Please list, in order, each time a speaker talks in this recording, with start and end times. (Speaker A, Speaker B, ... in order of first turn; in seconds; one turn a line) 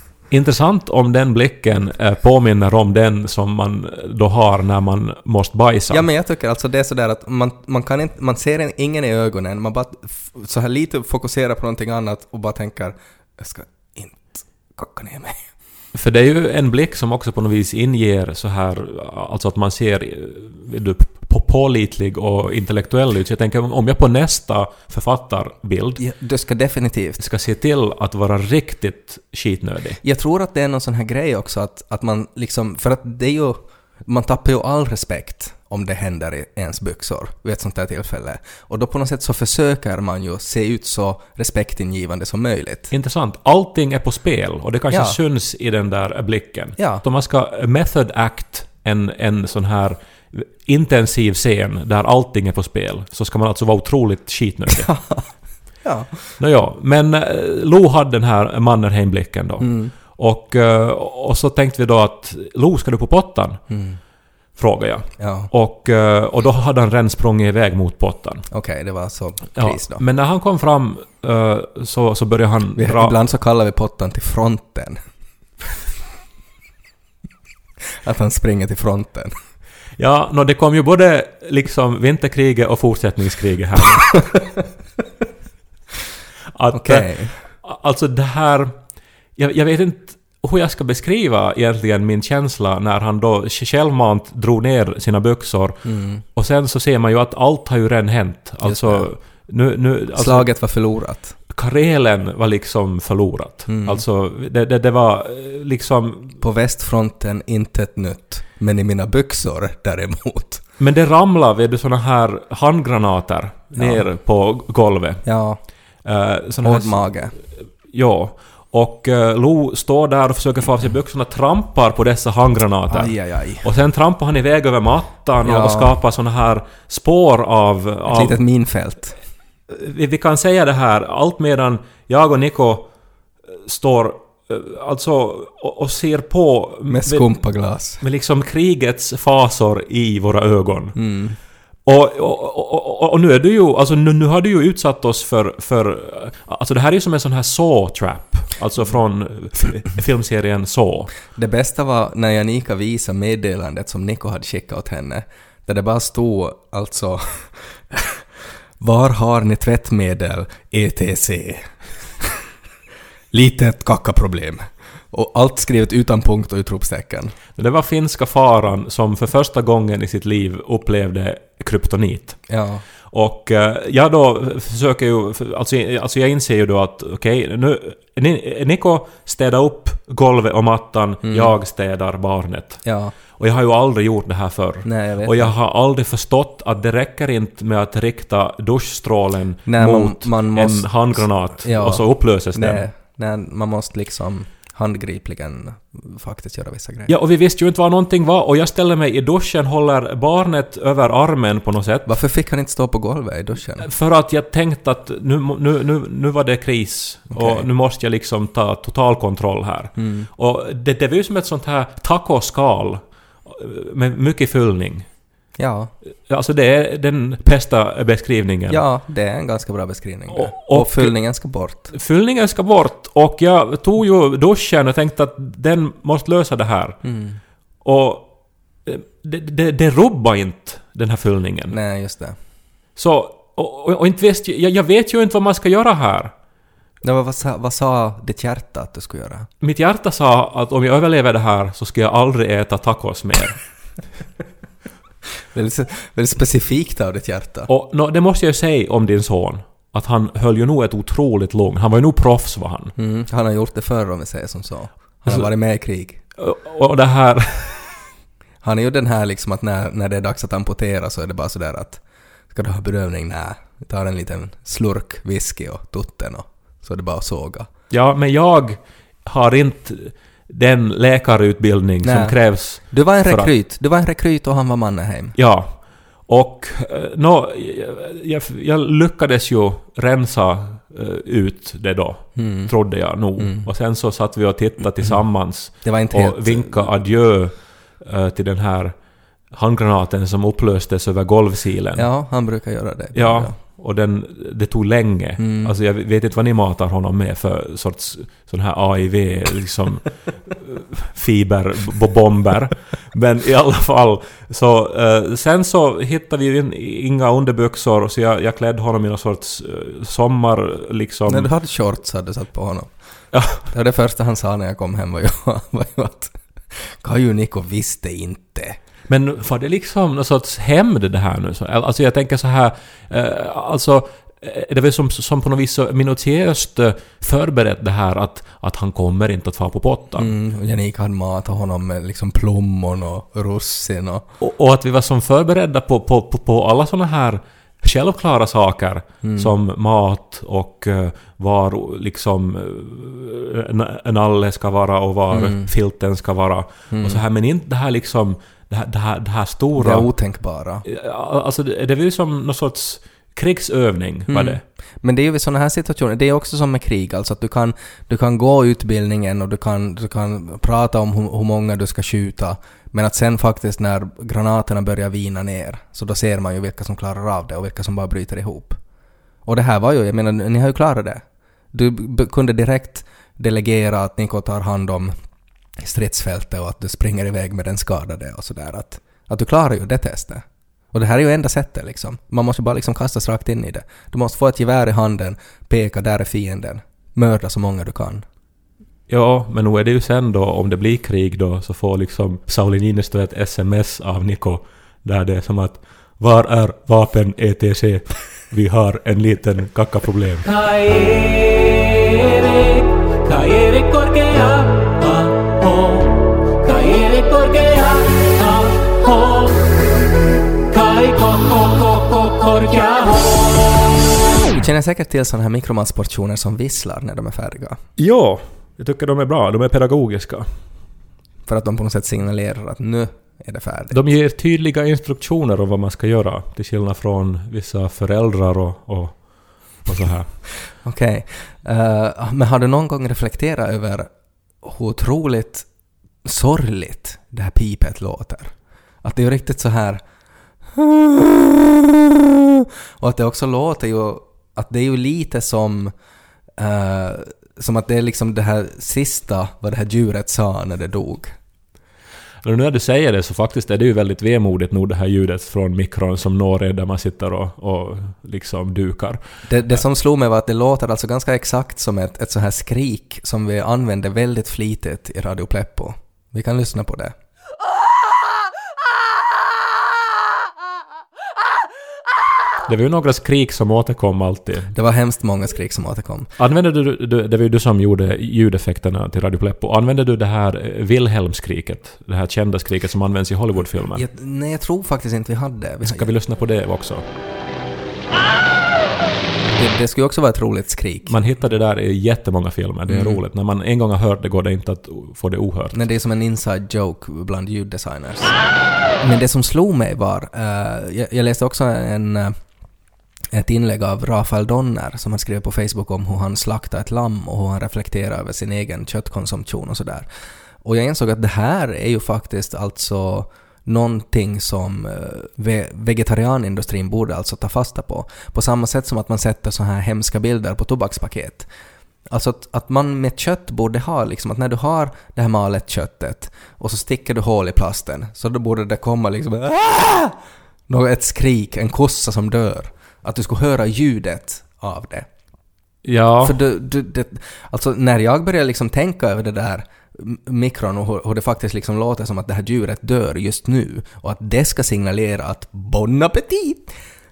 Speaker A: 0.3-6.1
Speaker B: 5.9-15.5
Speaker A: 15.9-26.0
Speaker B: 26.0-27.2
Speaker A: 27.2-30.0
Speaker B: 30.0-42.9
Speaker A: 42.9-55.0
Speaker B: 44.9-45.2
Speaker B: 46.8-47.0
Speaker B: 54.9-55.2
Speaker B: 55.8-56.2
Speaker A: 56.4-63.6
Speaker B: 59.6-60.0
Speaker B: 63.7-64.0
Speaker A: 64.5-68.5
Speaker B: 65.2-65.5
Speaker B: 68.5-70.0
Speaker A: 69.5-73.2
Speaker B: 72.8-75.0
Speaker B: 78.0-79.3
Speaker A: 80.0-84.2
Speaker A: 86.5-100.5
Speaker B: 86.7-87.4
Speaker B: 95.8-96.2
Speaker B: 98.6-99.1
Speaker B: 100.2-101.3
Speaker A: 101.5-106.4
Speaker B: 103.7-104.0
Speaker B: 106.4-110.6
Speaker A: 110.8-115.2
Speaker B: 113.8-114.1
Speaker B: 115.2-115.6
Speaker A: 116.0-117.2
Speaker B: 116.6-117.4
Speaker A: 117.8-128.4
Speaker B: 122.9-123.7
Speaker B: 125.4-126.0
Speaker B: 128.1-129.2
Speaker A: 129.7-132.9
Speaker A: 133.5-137.4
Speaker B: 136.9-138.0
Speaker A: 138.0-141.0
Speaker B: 140.9-141.4
Speaker A: 141.8-151.1
Speaker B: 151.4-158.2
Speaker B: 158.8-162.4
Speaker B: 163.3-167.3
Speaker A: 167.6-172.5
Speaker B: 172.5-172.8
Speaker A: 173.1-192.8
Speaker B: 181.2-181.6
Speaker B: 182.8-183.2
Speaker B: 184.8-185.5
Speaker B: 189.7-197.1
Speaker A: 197.1-202.1
Speaker B: 202.1-203.9
Speaker A: 203.8-215.1
Speaker B: 207.3-207.7
Speaker B: 210.0-210.3
Speaker B: 215.6-215.9
Speaker A: 216.3-218.8
Speaker B: 218.7-221.9
Speaker A: 220.3-221.2
Speaker A: 221.9-227.0
Speaker B: 227.0-227.4
Speaker A: 227.8-228.3
Speaker A: 228.8-231.8
Speaker B: 231.7-232.4
Speaker A: 233.0-236.3
Speaker B: 237.0-239.5
Speaker A: 239.6-243.6
Speaker B: 245.5-247.7
Speaker A: 247.7-252.9
Speaker B: 253.0-256.2
Speaker A: 256.4-258.0
Speaker B: 258.6-267.7
Speaker A: 267.9-273.5
Speaker B: 272.0-275.4
Speaker A: 275.4-289.0
Speaker B: 282.4-282.7
Speaker B: 283.4-283.7
Speaker B: 285.8-286.9
Speaker A: 289.5-292.1
Speaker B: 292.0-293.6
Speaker A: 293.1-311.5
Speaker B: 295.4-295.7
Speaker B: 311.3-312.9
Speaker A: 313.3-313.6
Speaker B: 313.6-318.8
Speaker A: 319.1-330.3
Speaker B: 330.2-334.3
Speaker A: 334.4-350.1
Speaker B: 339.2-339.5
Speaker B: 345.3-345.7
Speaker B: 346.9-347.2
Speaker B: 349.8-350.8
Speaker A: 350.9-354.6
Speaker B: 354.3-368.8
Speaker B: 369.5-375.1
Speaker B: 375.8-388.2
Speaker A: 389.1-400.4
Speaker C: 400.4-409.8
Speaker C: 410.7-413.8
Speaker B: 414.5-417.8
Speaker A: 418.0-420.5
Speaker B: 421.5-424.0
Speaker A: 423.9-430.4
Speaker B: 430.8-435.7
Speaker B: 436.2-440.0
Speaker B: 440.7-441.9
Speaker B: 443.0-445.9
Speaker B: 446.6-451.4
Speaker A: 452.4-459.2
Speaker B: 459.5-467.1
Speaker A: 472.7-474.7
Speaker B: 474.7-476.3
Speaker A: 476.4-484.1
Speaker B: 483.9-486.1
Speaker A: 485.8-487.0
Speaker B: 489.5-491.3
Speaker A: 491.1-495.8
Speaker B: 492.9-493.2
Speaker B: 495.7-498.4
Speaker B: 499.0-502.4
Speaker B: 503.3-510.1
Speaker B: 510.6-521.5
Speaker B: 522.1-530.2
Speaker B: 530.7-535.1
Speaker A: 535.8-536.4
Speaker B: 536.2-546.7